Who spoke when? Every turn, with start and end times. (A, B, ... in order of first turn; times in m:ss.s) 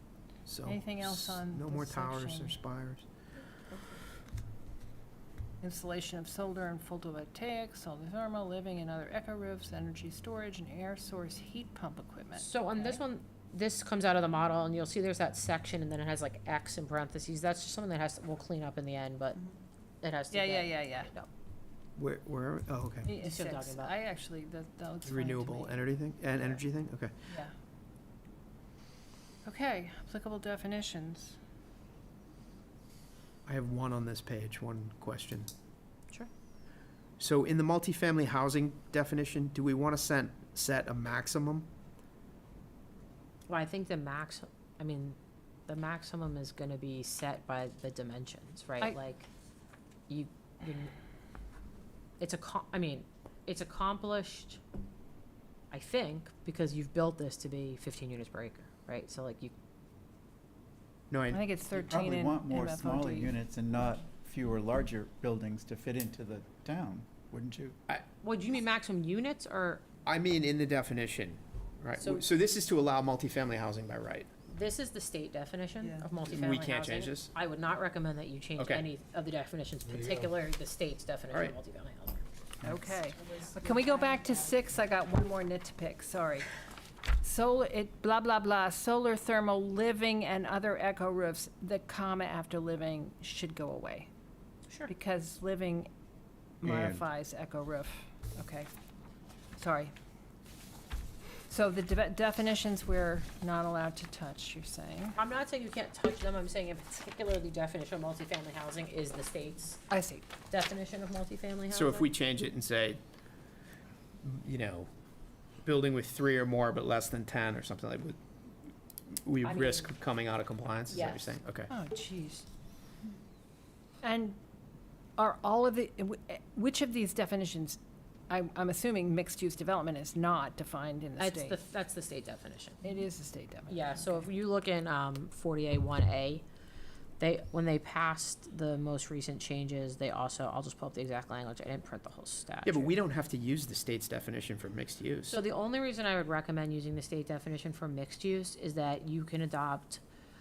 0:00.5-0:03.0 A
0:00.6-0:02.6 B
0:05.6-0:13.0 B
0:12.4-0:19.4 C
0:20.0-0:21.3 C
0:20.3-0:21.1 B
0:22.0-0:23.1 A
0:23.0-0:25.9 B
0:23.2-0:23.9 C
0:25.0-0:27.2 A
0:26.4-0:26.6 C
0:27.2-0:27.5 B
0:29.4-0:31.4 B
0:33.5-0:35.5 A
0:37.2-0:41.7 A
0:43.5-0:45.2 C
0:45.7-0:49.3 C
0:50.1-0:50.9 C
0:52.2-0:54.6 C
0:55.7-0:59.5 C
1:01.1-1:01.4 A
1:01.3-1:03.3 B
1:01.8-1:07.8 D
1:08.2-1:09.8 C
1:10.0-1:14.3 A
1:12.0-1:12.3 C
1:14.5-1:22.2 C
1:16.2-1:17.3 A
1:18.6-1:18.9 A
1:19.9-1:20.3 A
1:22.6-1:26.5 B
1:23.2-1:24.4 C
1:27.2-1:34.1 B
1:34.9-1:35.9 B
1:36.6-1:38.7 B
1:36.6-1:37.1 A
1:39.6-1:39.9 B
1:41.5-1:45.2 B
1:45.2-1:49.8 C
1:49.9-1:50.3 B
1:50.5-1:52.1 C
1:51.7-1:53.0 A
1:54.2-1:54.9 A
1:55.6-1:58.2 A
1:59.2-2:01.7 A
1:59.4-1:59.9 C
2:00.9-2:01.4 C
2:01.7-2:02.5 B
2:04.0-2:04.4 B
2:05.2-2:11.6 B
2:11.2-2:12.8 C
2:12.8-2:14.2 B
2:13.7-2:16.4 C
2:17.2-2:22.9 C
2:22.6-2:25.4 A
2:25.3-2:30.0 C